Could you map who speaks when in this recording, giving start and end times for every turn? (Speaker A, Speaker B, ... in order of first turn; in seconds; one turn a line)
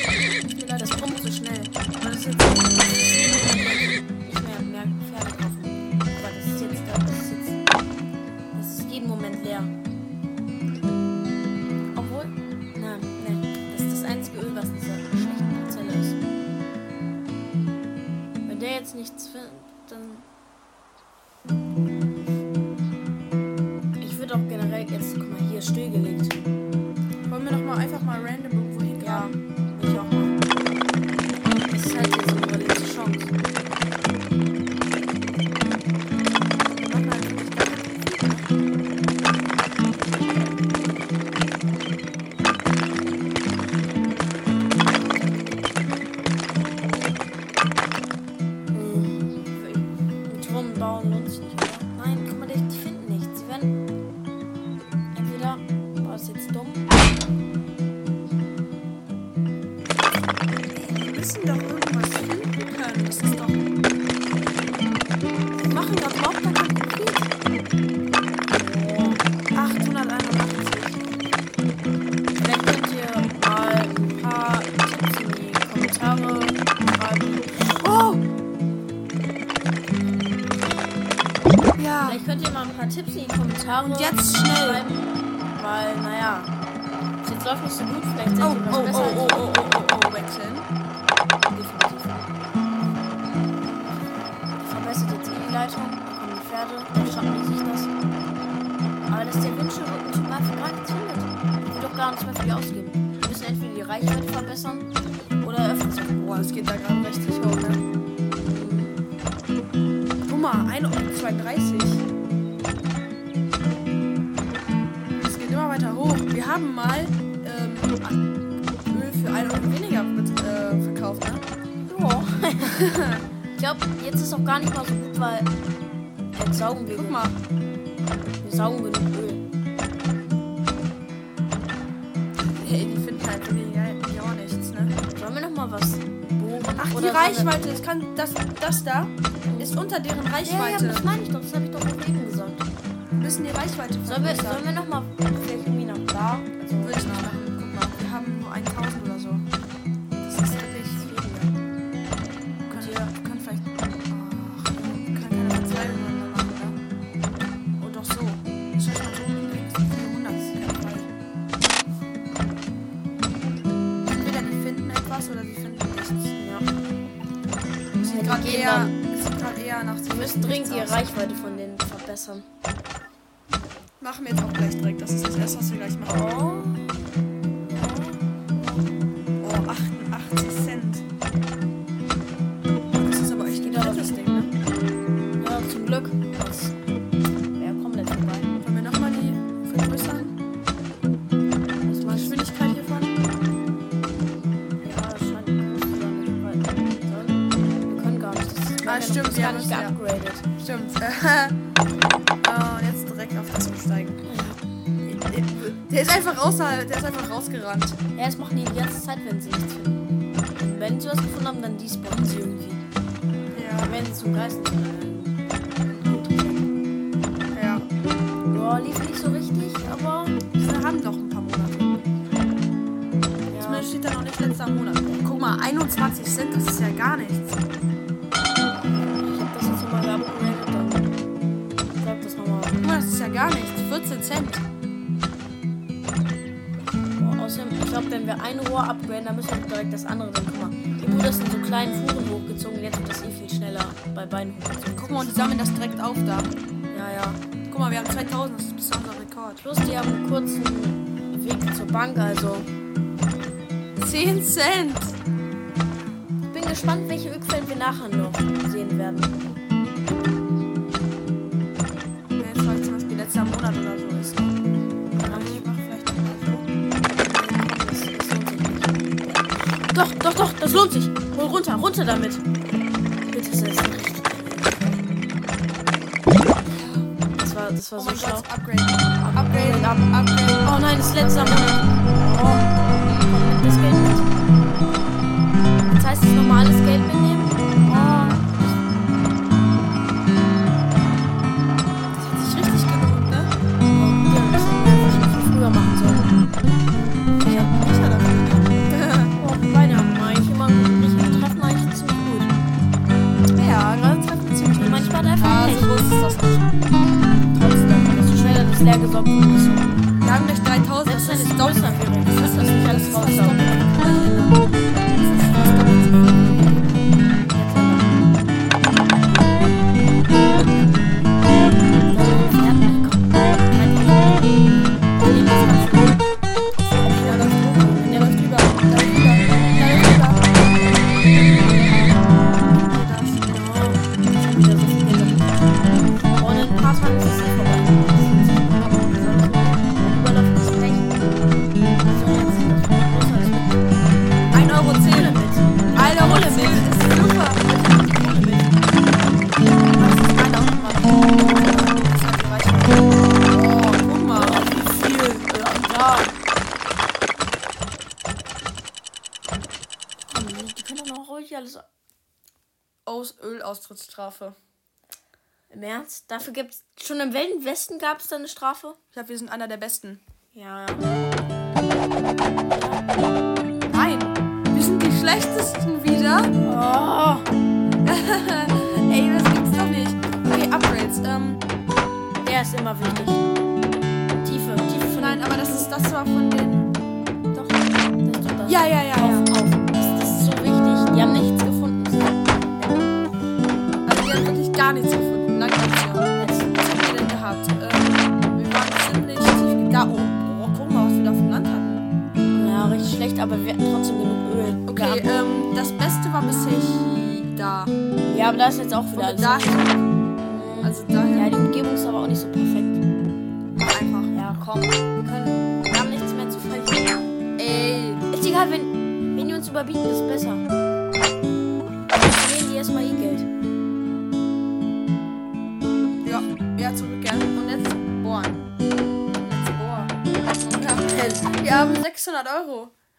Speaker A: 0.5-1.4
Speaker B: 0.8-7.6
Speaker B: 8.6-9.7
Speaker B: 11.9-16.2
Speaker B: 18.5-20.3
Speaker B: 24.0-26.5
Speaker A: 27.3-29.3
Speaker B: 29.0-30.4
Speaker B: 31.6-33.3
Speaker A: 36.6-38.5
Speaker B: 48.7-53.7
Speaker B: 55.1-56.9
Speaker A: 60.7-63.8
Speaker A: 65.6-67.3
Speaker B: 68.5-69.2
Speaker A: 69.5-71.0
Speaker B: 72.4-77.8
Speaker A: 77.7-78.2
Speaker A: 81.8-82.2
Speaker B: 82.0-86.5
Speaker A: 83.9-84.8
Speaker B: 87.2-89.5
Speaker A: 88.4-90.7
Speaker B: 91.4-92.3
Speaker B: 94.6-97.9
Speaker B: 99.1-104.9
Speaker B: 105.4-106.6
Speaker A: 106.2-107.8
Speaker B: 108.5-109.0
Speaker A: 110.2-112.0
Speaker A: 115.2-118.2
Speaker A: 118.9-121.5
Speaker B: 121.9-122.8
Speaker A: 122.6-123.2
Speaker B: 123.6-125.5
Speaker B: 126.4-127.2
Speaker A: 126.9-127.4
Speaker B: 128.4-129.4
Speaker A: 132.6-134.9
Speaker B: 135.1-137.5
Speaker A: 136.8-141.0
Speaker B: 139.5-139.7
Speaker B: 140.4-142.7
Speaker A: 143.2-144.7
Speaker B: 144.1-147.3
Speaker A: 146.8-149.5
Speaker A: 150.2-151.1
Speaker B: 150.3-151.5
Speaker A: 152.7-156.8
Speaker B: 152.7-153.1
Speaker A: 157.8-161.1
Speaker A: 164.0-166.3
Speaker B: 166.4-166.7
Speaker A: 168.0-171.0
Speaker B: 168.0-168.9
Speaker B: 170.1-172.5
Speaker A: 174.0-176.3
Speaker B: 176.1-179.0
Speaker A: 179.4-181.1
Speaker A: 182.9-184.5
Speaker B: 183.6-184.5
Speaker B: 185.4-186.8
Speaker B: 187.6-188.5
Speaker A: 188.6-190.4
Speaker B: 191.8-192.5
Speaker A: 192.1-193.3
Speaker B: 194.8-200.4
Speaker A: 198.8-200.0
Speaker A: 200.6-201.6
Speaker A: 202.4-204.2
Speaker B: 204.3-204.6
Speaker A: 205.0-208.0
Speaker B: 208.2-210.0
Speaker B: 210.6-212.8
Speaker A: 213.5-214.0
Speaker B: 213.8-216.7
Speaker A: 217.5-217.9
Speaker B: 218.5-220.4
Speaker A: 220.6-222.0
Speaker B: 223.5-223.9
Speaker A: 223.6-227.6
Speaker B: 229.0-231.1
Speaker B: 232.0-232.8
Speaker A: 232.8-234.7
Speaker B: 237.2-245.5
Speaker A: 245.0-246.5
Speaker B: 246.9-247.4
Speaker A: 247.7-249.6
Speaker B: 249.6-252.7
Speaker A: 254.0-255.2
Speaker B: 256.5-259.4
Speaker A: 262.3-264.6
Speaker A: 265.1-266.7
Speaker B: 265.2-265.7
Speaker B: 267.0-272.4
Speaker B: 273.3-275.1
Speaker A: 276.6-277.1
Speaker B: 277.4-278.5
Speaker A: 278.0-281.9
Speaker B: 279.2-280.1
Speaker B: 280.6-284.4
Speaker B: 285.8-289.1
Speaker B: 292.1-292.8
Speaker A: 292.3-293.5
Speaker B: 293.8-296.4
Speaker A: 297.4-299.4
Speaker B: 299.4-302.5
Speaker A: 303.5-306.7
Speaker B: 303.6-305.9
Speaker B: 307.5-310.0
Speaker A: 310.2-317.1
Speaker B: 311.1-313.6
Speaker B: 317.5-318.2
Speaker B: 320.3-321.2
Speaker B: 322.0-324.7
Speaker B: 325.3-326.2
Speaker A: 325.5-325.8
Speaker A: 326.8-330.6
Speaker B: 326.9-328.5
Speaker A: 331.3-332.1
Speaker A: 332.8-333.6
Speaker B: 333.5-335.6
Speaker B: 336.4-341.2
Speaker B: 342.0-344.0
Speaker A: 344.5-345.4
Speaker B: 345.0-349.0
Speaker A: 345.9-347.6
Speaker B: 349.9-352.1
Speaker A: 351.6-355.4
Speaker B: 354.4-356.4
Speaker B: 360.3-361.9
Speaker A: 363.1-364.6
Speaker B: 365.7-369.0
Speaker A: 369.1-370.2
Speaker B: 370.5-371.1
Speaker B: 372.7-373.2
Speaker A: 373.9-376.5
Speaker B: 376.6-377.5
Speaker A: 378.0-381.6
Speaker B: 382.4-383.5
Speaker B: 384.4-385.9
Speaker A: 385.1-386.9
Speaker B: 387.5-393.1
Speaker A: 388.7-389.5
Speaker A: 394.1-402.0
Speaker B: 396.4-396.8
Speaker B: 402.5-405.3
Speaker A: 404.9-407.9
Speaker B: 408.3-409.9
Speaker A: 409.1-410.2
Speaker B: 410.4-413.0
Speaker A: 410.8-411.6
Speaker A: 413.7-414.3
Speaker B: 414.3-417.2
Speaker A: 417.6-418.2
Speaker B: 418.3-420.7
Speaker B: 422.1-423.5
Speaker A: 426.2-428.7
Speaker A: 429.4-432.9
Speaker B: 431.1-431.6